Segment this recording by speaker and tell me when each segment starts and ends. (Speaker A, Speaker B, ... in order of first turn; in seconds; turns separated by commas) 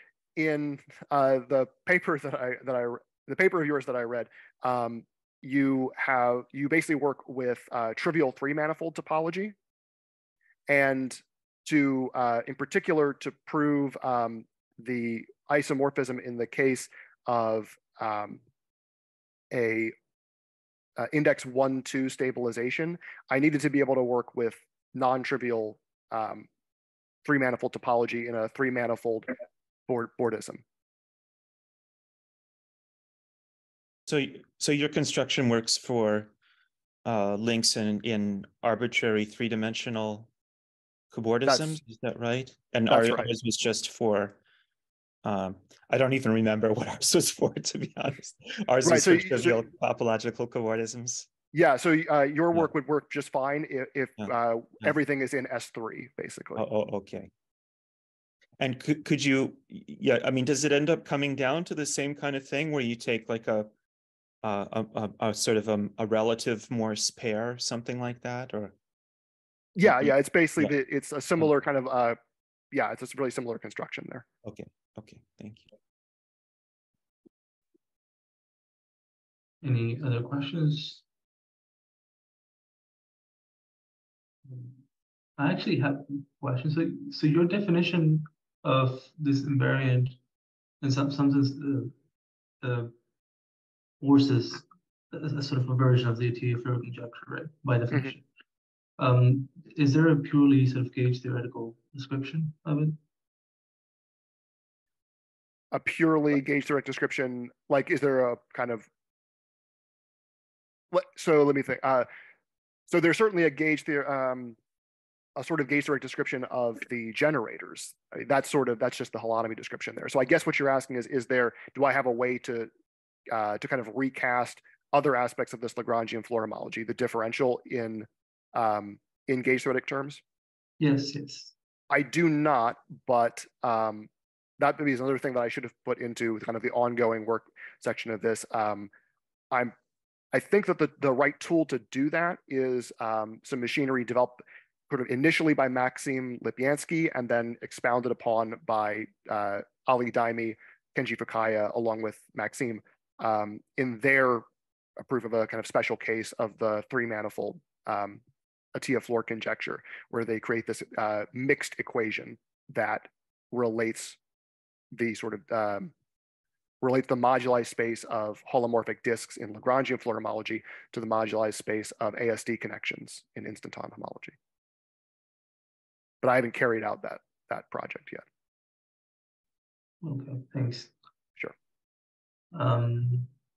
Speaker A: 0.4-9.6, Speaker A: 10.7-18.4, Speaker A: 19.5-19.9, Speaker A: 21.0-26.5, Speaker A: 27.2-29.3, Speaker A: 29.9-30.6, Speaker B: 34.1-36.3, Speaker B: 37.0-40.3, Speaker B: 41.1-44.4, Speaker A: 41.5-41.8, Speaker A: 42.9-43.3, Speaker B: 45.2-51.3, Speaker A: 48.8-49.6, Speaker A: 51.5-56.6, Speaker B: 56.6-57.3, Speaker B: 58.6-63.7, Speaker B: 64.4-68.8, Speaker A: 69.8-72.2, Speaker B: 69.9-70.7, Speaker A: 72.7-74.2, Speaker B: 74.4-75.7, Speaker C: 79.6-81.0, Speaker C: 84.5-84.8, Speaker C: 85.4-90.2, Speaker C: 90.8-92.0, Speaker C: 92.6-92.9, Speaker C: 94.0-98.2, Speaker C: 99.0-103.0, Speaker A: 105.7-108.9, Speaker A: 110.9-112.1, Speaker A: 112.9-114.6, Speaker A: 115.4-122.7, Speaker A: 123.3-130.2, Speaker C: 130.8-131.5, Speaker A: 131.9-134.1, Speaker A: 134.6-138.9, Speaker A: 140.3-154.4, Speaker A: 155.0-158.2, Speaker A: 158.7-164.2, Speaker A: 164.9-165.9, Speaker A: 166.8-174.3, Speaker A: 176.2-178.2, Speaker C: 180.0-180.9, Speaker C: 182.5-183.3